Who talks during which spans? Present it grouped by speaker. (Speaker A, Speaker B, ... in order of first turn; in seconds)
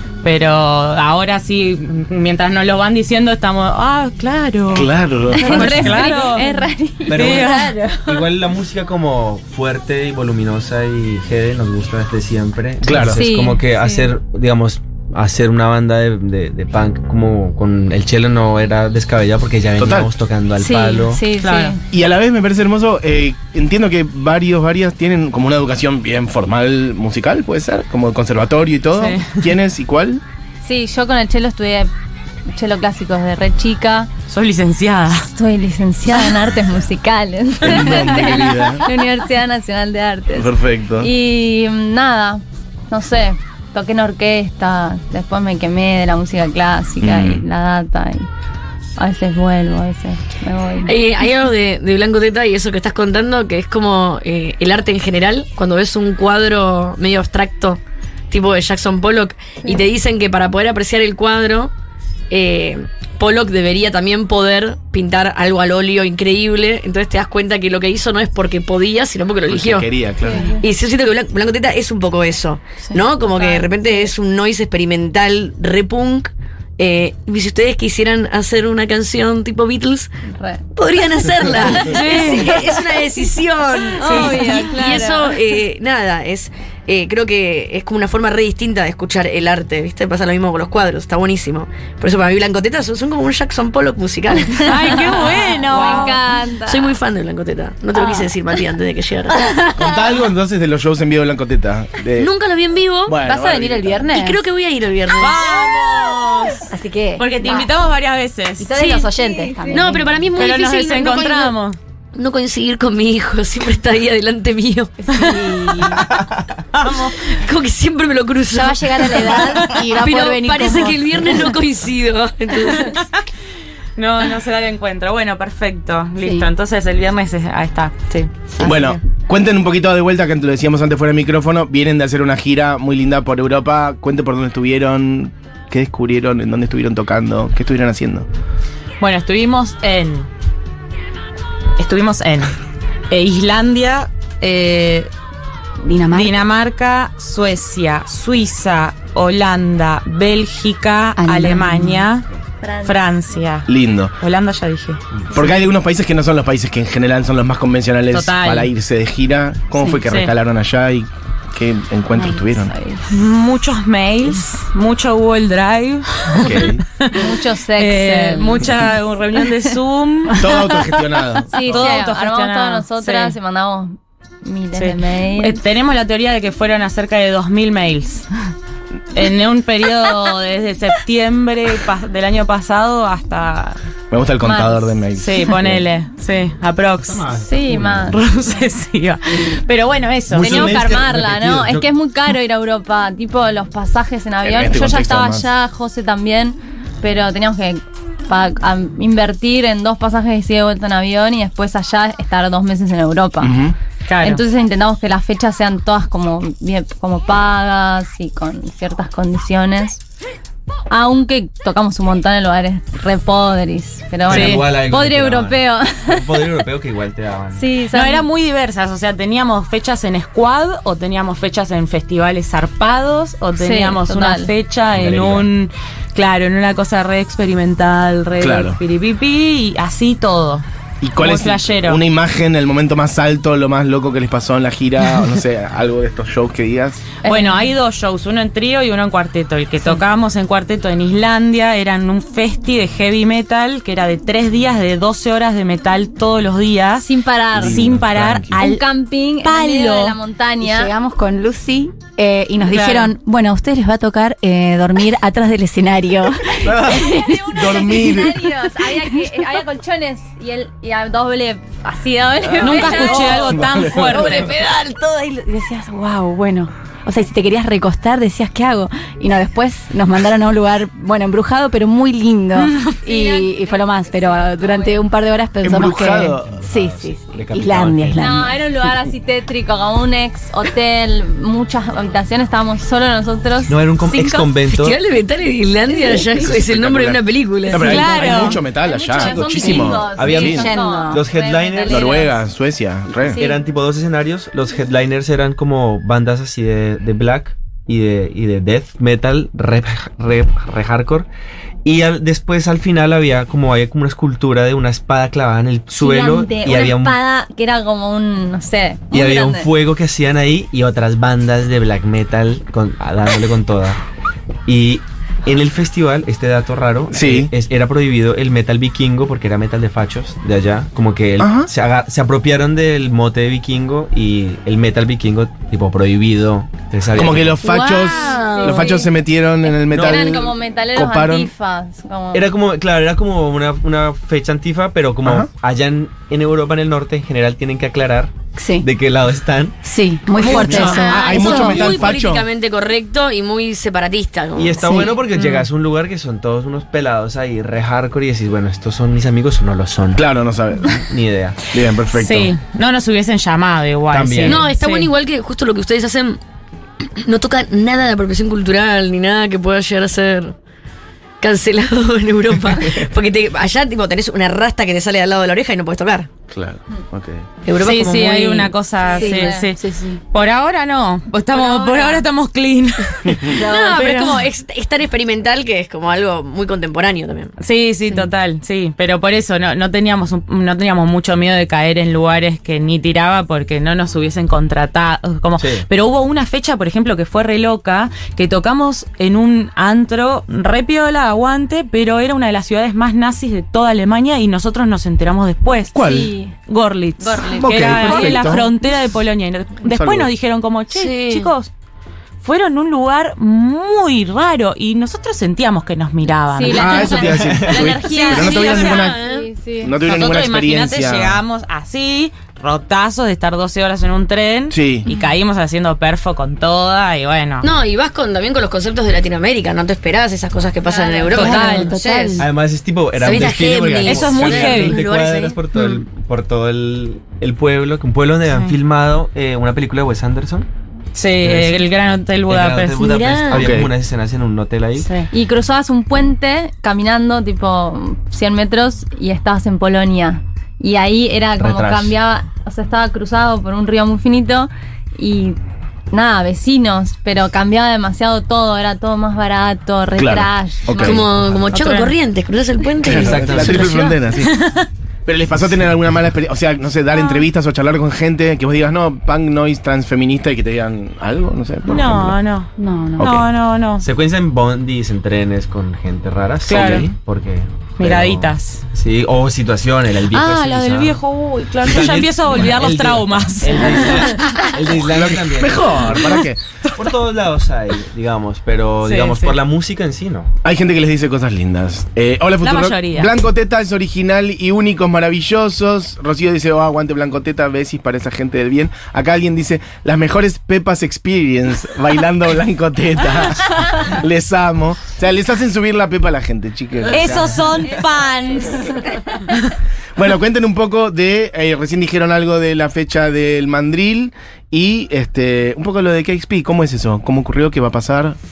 Speaker A: 0.2-6.6, 7.1-7.8, 21.4-21.8, 29.0-29.4, 34.3-35.3, 81.8-82.6, 94.6-96.2, 105.2-109.0, 110.3-111.8, 116.7-117.2, 122.7-123.1, 124.0-129.0, 139.0-140.3, 141.8-142.6, 143.1-145.1, 146.1-152.3, 152.8-155.0, 158.1-158.7, 160.1-160.3, 163.1-170.7, 171.6-173.4, 174.8-178.3, 179.1-183.8, 185.2-187.3, 188.1-190.8, 204.1-204.4, 214.3-214.7, 217.9-230.7, 231.2-232.0, 237.2-248.9, 249.4-250.2, 252.7-253.1, 262.6-264.6, 272.6-273.0, 287.7-288.6, 345.4-345.7, 352.1-355.1, 367.8-374.4, 377.6-396.0, 396.7-401.7, 402.4-409.2, 410.1-417.7, 421.3-422.0, 424.0-425.0, 431.1-433.1, 451.7-452.1, 454.4-454.9, 461.9-464.1, 466.7-467.1, 468.0-468.8, 470.3-474.4, 479.0-479.6, 482.6-483.3, 497.1-499.0
Speaker B: 4.7-6.0, 12.8-13.2, 19.8-20.1, 21.9-30.2, 37.6-38.9, 40.4-41.1, 47.0-47.4, 69.5-70.5, 99.8-102.3, 103.0-104.1, 128.6-138.3, 153.7-154.1, 155.3-162.7, 166.3-166.8, 170.4-171.9, 184.1-185.8, 194.4-195.5, 203.4-203.8, 228.4-228.8, 231.0-237.1, 247.6-248.6, 256.6-258.4, 263.4-264.4, 275.6-276.7, 286.4-290.7, 291.9-293.4, 317.1-317.5, 321.4-321.7, 327.1-331.5, 335.2-335.5, 340.4-342.5, 350.1-351.1, 351.7-352.6, 366.5-367.5, 373.3-373.5, 395.9-396.3, 397.5-398.7, 399.9-400.3, 406.7-409.2, 409.8-411.4, 414.7-415.1, 433.5-433.9, 450.2-451.5, 453.0-454.6, 455.3-462.4, 463.2-463.5, 466.7-467.1, 475.1-476.6, 480.6-497.6, 500.2-508.4
Speaker C: 5.3-7.5, 13.1-14.1, 20.6-21.8, 30.6-31.9, 32.5-34.1, 35.2-48.3, 49.0-51.0, 70.2-70.6, 72.9-73.7, 80.3-80.7, 81.7-82.3, 84.0-85.4, 95.7-97.0, 103.3-104.1, 109.0-110.0, 152.6-153.0, 162.6-163.0, 167.1-168.7, 171.5-175.6, 184.5-184.7, 187.4-188.2, 190.4-203.5, 204.2-210.0, 210.9-216.6, 217.6-218.3, 223.6-224.5, 237.2-237.7, 247.0-247.9, 248.5-250.9, 256.8-263.7, 273.0-275.0, 278.2-284.4, 288.7-292.4, 293.3-293.6, 305.9-309.7, 327.8-329.1, 329.9-332.5, 340.8-341.5, 369.1-369.7, 371.5-372.2, 396.0-396.6, 397.2-398.7, 406.5-410.0, 420.9-421.3, 435.3-445.6, 446.1-451.2, 498.6-499.2
Speaker D: 7.1-21.2, 187.1-188.2, 190.3-191.9, 214.3-217.7, 224.9-225.5, 276.5-278.4, 283.7-285.0, 289.1-292.3, 293.3-301.3, 301.9-307.2, 309.1-314.0, 314.7-327.7, 329.9-330.4, 332.3-339.8, 344.6-350.2, 350.9-351.6, 354.1-354.7, 385.6-385.9, 407.4-407.9, 422.4-430.7, 431.4-431.8, 432.5-435.1, 441.6-442.1, 453.1-454.0, 464.0-471.2, 471.8-476.3, 477.0-480.5
Speaker E: 7.2-8.2, 84.0-84.7, 103.4-104.4, 106.7-107.7, 108.6-110.1, 115.0-116.1, 118.5-121.4, 126.2-126.5, 145.8-146.4, 151.2-152.1, 250.6-258.2, 258.9-259.2, 262.6-263.5, 264.1-278.6, 290.1-291.3, 338.6-338.9, 339.8-341.9, 344.8-345.1, 369.1-370.2, 373.5-374.1, 421.3-422.5, 462.8-463.3
Speaker F: 50.9-61.7, 62.3-69.9, 70.5-80.1, 80.8-99.6, 102.2-103.2, 104.1-105.6, 109.7-111.5, 112.2-115.0, 117.2-123.0, 284.6-288.4, 327.7-328.9, 340.4-345.1, 354.4-356.4, 357.0-360.6, 361.4-366.3, 367.6-368.8, 373.6-377.5, 400.9-401.5, 408.4-409.5, 417.6-422.5, 423.2-426.0, 433.0-433.7, 451.0-454.1